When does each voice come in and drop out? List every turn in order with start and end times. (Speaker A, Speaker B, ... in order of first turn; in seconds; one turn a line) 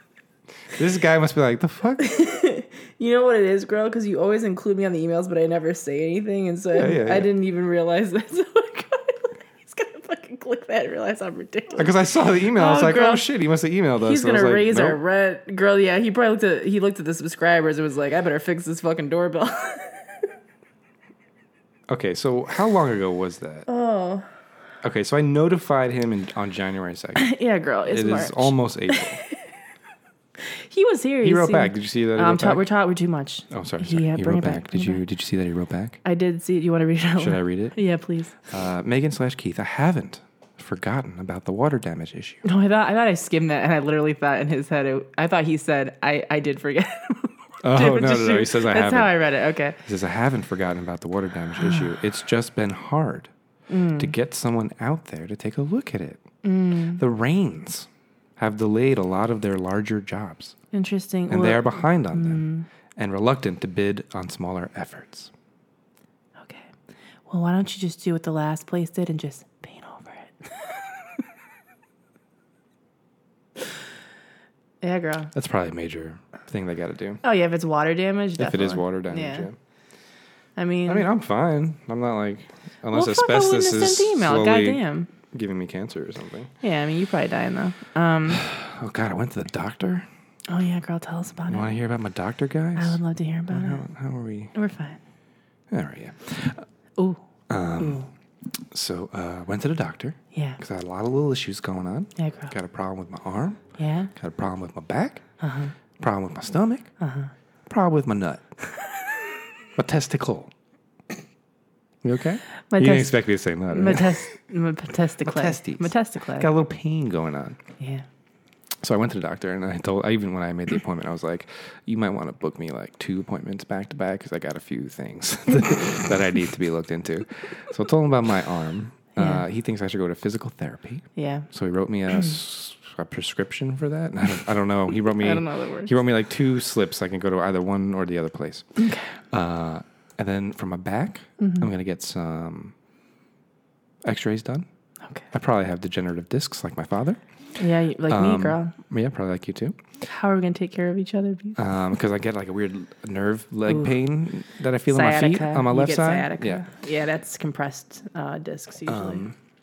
Speaker A: 0.7-2.1
Speaker B: 2.0-11.9
Speaker A: 6.8-7.3
Speaker A: 11.8-15.0
Speaker B: 12.5-13.3
Speaker B: 14.0-20.2
Speaker A: 21.9-23.7
Speaker B: 23.7-24.3
Speaker A: 24.8-27.3
Speaker B: 27.2-29.4
Speaker A: 27.9-29.2
Speaker B: 30.4-35.0
Speaker A: 31.2-32.6
Speaker A: 33.5-36.0
Speaker B: 36.0-38.4
Speaker A: 37.2-37.8
Speaker A: 38.5-42.4
Speaker B: 42.4-49.8
Speaker A: 47.6-49.2
Speaker A: 49.9-53.3
Speaker B: 51.6-51.9
Speaker B: 53.7-54.1
Speaker A: 54.0-56.2
Speaker B: 56.4-57.0
Speaker A: 56.9-60.5
Speaker B: 60.7-62.7
Speaker A: 61.3-65.3
Speaker B: 66.4-66.7
Speaker B: 67.3-71.1
Speaker B: 74.8-75.3
Speaker A: 75.3-77.2
Speaker B: 77.2-79.5
Speaker A: 78.4-79.5
Speaker B: 80.6-81.1
Speaker A: 80.9-86.5
Speaker B: 82.9-85.1
Speaker B: 86.6-88.5
Speaker A: 88.3-90.1
Speaker B: 90.5-91.8
Speaker A: 91.5-94.5
Speaker B: 92.8-93.8
Speaker B: 94.5-95.0
Speaker A: 95.7-96.7
Speaker B: 97.0-97.2
Speaker A: 97.5-98.0
Speaker B: 97.8-98.1
Speaker A: 98.6-103.6
Speaker B: 100.3-100.6
Speaker B: 102.2-102.5
Speaker B: 103.8-104.1
Speaker A: 104.2-105.2
Speaker B: 105.4-105.8
Speaker A: 106.0-106.9
Speaker B: 107.0-107.3
Speaker A: 107.7-108.4
Speaker A: 109.8-110.5
Speaker A: 112.0-114.3
Speaker B: 112.7-116.5
Speaker A: 115.2-117.6
Speaker B: 117.8-118.1
Speaker A: 118.8-142.7
Speaker B: 129.2-129.4
Speaker B: 131.2-131.5
Speaker B: 135.2-135.9
Speaker B: 138.8-139.2
Speaker B: 141.4-141.7
Speaker A: 144.0-144.7
Speaker A: 145.3-147.2
Speaker B: 147.6-148.8
Speaker A: 148.1-149.8
Speaker B: 150.0-151.6
Speaker A: 151.6-156.7
Speaker B: 153.7-153.9
Speaker B: 154.9-159.2
Speaker A: 158.9-159.4